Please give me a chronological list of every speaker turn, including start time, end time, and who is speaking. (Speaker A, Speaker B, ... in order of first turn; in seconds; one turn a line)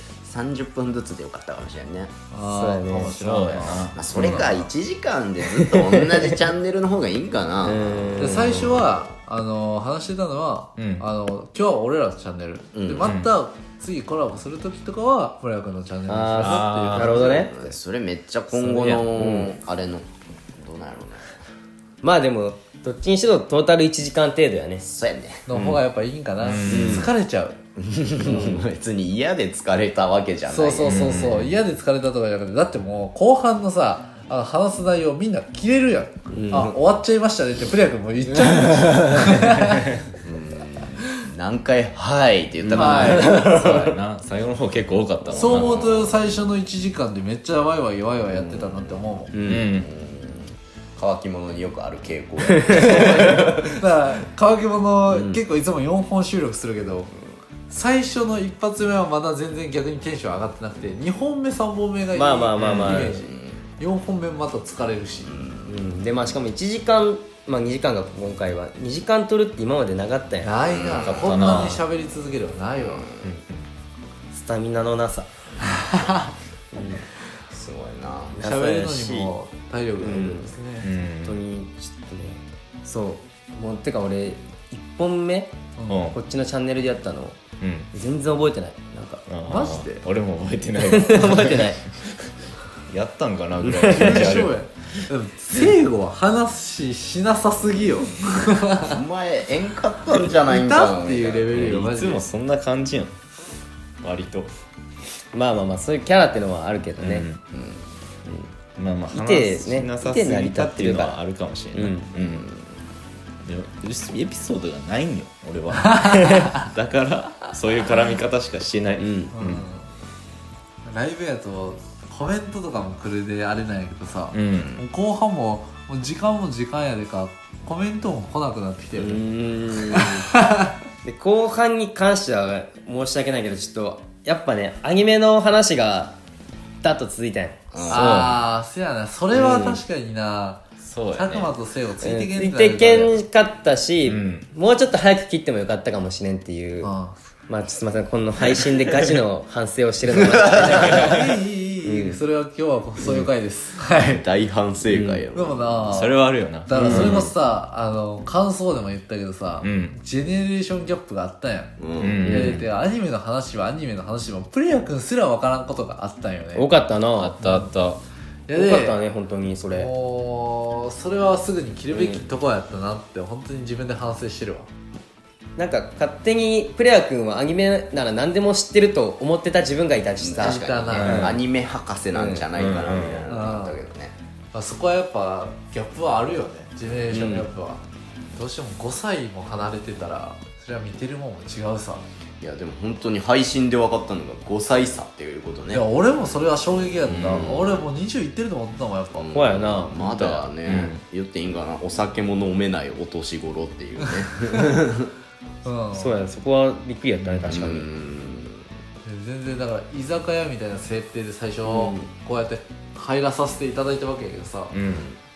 Speaker A: 0.2-2.1
Speaker B: 2.3-4.7
Speaker C: 2.5-3.1
Speaker D: 3.1-4.5
Speaker A: 4.0-9.1
Speaker C: 5.8-6.2
Speaker C: 7.6-8.8
Speaker B: 8.2-17.7
Speaker D: 10.8-11.1
Speaker A: 12.7-13.1
Speaker D: 13.0-13.3
Speaker C: 16.1-17.5
Speaker D: 16.4-17.2
Speaker A: 17.2-21.3
Speaker C: 18.6-19.5
Speaker D: 18.6-19.1
Speaker C: 22.0-24.9
Speaker A: 24.8-25.6
Speaker B: 25.5-27.6
Speaker D: 26.4-27.1
Speaker C: 26.7-27.1
Speaker A: 26.7-27.0
Speaker A: 27.8-31.3
Speaker C: 28.2-28.6
Speaker B: 30.5-40.0
Speaker D: 30.8-31.5
Speaker C: 36.3-36.7
Speaker A: 40.2-43.9
Speaker C: 42.6-43.5
Speaker B: 42.7-43.5
Speaker D: 43.3-45.7
Speaker A: 45.2-46.4
Speaker B: 45.3-49.3
Speaker A: 48.3-53.8
Speaker D: 49.5-49.9
Speaker B: 52.5-57.1
Speaker C: 53.0-53.3
Speaker A: 55.1-55.4
Speaker B: 57.7-65.3
Speaker C: 62.1-63.2
Speaker D: 62.6-63.1
Speaker A: 62.9-63.6
Speaker A: 65.3-65.9
Speaker C: 65.7-70.5
Speaker B: 70.4-73.1
Speaker A: 70.7-71.7
Speaker D: 71.0-71.8
Speaker A: 72.8-73.3
Speaker C: 74.3-75.3
Speaker B: 75.9-76.3
Speaker C: 76.7-77.0
Speaker A: 77.5-78.4
Speaker C: 78.4-79.3
Speaker B: 78.4-80.9
Speaker C: 80.0-80.5
Speaker D: 80.8-81.4
Speaker C: 81.2-85.5
Speaker B: 85.8-86.1
Speaker D: 85.9-86.2
Speaker C: 86.1-87.4
Speaker D: 87.6-87.9
Speaker C: 87.9-89.2
Speaker D: 89.3-91.8
Speaker B: 89.4-90.0
Speaker C: 90.8-91.8
Speaker D: 92.9-94.5
Speaker C: 93.8-94.1
Speaker B: 93.8-98.9
Speaker A: 98.7-101.8
Speaker B: 100.3-102.3
Speaker D: 101.5-103.1
Speaker D: 104.0-104.5
Speaker C: 105.3-107.3
Speaker D: 107.0-107.4
Speaker A: 107.5-107.8
Speaker C: 108.3-108.5
Speaker D: 108.8-112.5
Speaker C: 109.1-111.2
Speaker C: 111.7-112.1
Speaker D: 113.4-119.6
Speaker C: 119.0-119.3
Speaker B: 119.3-119.9
Speaker B: 120.8-129.2
Speaker D: 124.3-124.8
Speaker C: 129.0-130.3
Speaker B: 129.9-130.7
Speaker C: 131.0-136.2
Speaker C: 136.8-138.4
Speaker A: 137.7-138.3
Speaker B: 137.9-143.2
Speaker C: 139.3-139.8
Speaker D: 140.8-141.5
Speaker C: 142.0-146.9
Speaker D: 144.1-144.5
Speaker B: 146.8-147.2
Speaker C: 147.5-151.1
Speaker B: 150.8-154.2
Speaker D: 150.8-151.2
Speaker C: 151.8-152.2
Speaker A: 154.0-155.9
Speaker C: 154.9-155.2
Speaker B: 155.3-166.7
Speaker D: 155.9-157.2
Speaker C: 156.8-157.3
Speaker D: 159.6-160.0
Speaker A: 161.8-162.3
Speaker D: 162.0-162.7
Speaker C: 162.3-162.6
Speaker C: 166.5-167.3
Speaker D: 167.2-168.0
Speaker B: 167.4-167.7
Speaker B: 168.5-169.0
Speaker C: 168.5-169.9
Speaker B: 169.7-174.7
Speaker C: 171.9-172.2
Speaker C: 175.6-181.4
Speaker A: 180.2-184.2
Speaker B: 180.4-181.3
Speaker C: 182.1-182.5
Speaker D: 182.5-183.3
Speaker B: 183.3-183.8
Speaker B: 184.5-187.8
Speaker C: 187.1-187.5
Speaker B: 188.3-192.0
Speaker A: 192.4-195.9
Speaker B: 195.7-199.3
Speaker A: 197.0-197.8
Speaker D: 197.1-197.5
Speaker A: 199.2-205.1
Speaker C: 199.3-200.5
Speaker D: 200.7-201.0
Speaker B: 205.6-206.2
Speaker C: 205.9-207.9
Speaker D: 207.2-207.5
Speaker A: 207.5-208.6
Speaker B: 209.0-214.8
Speaker C: 211.7-212.0
Speaker D: 214.7-215.1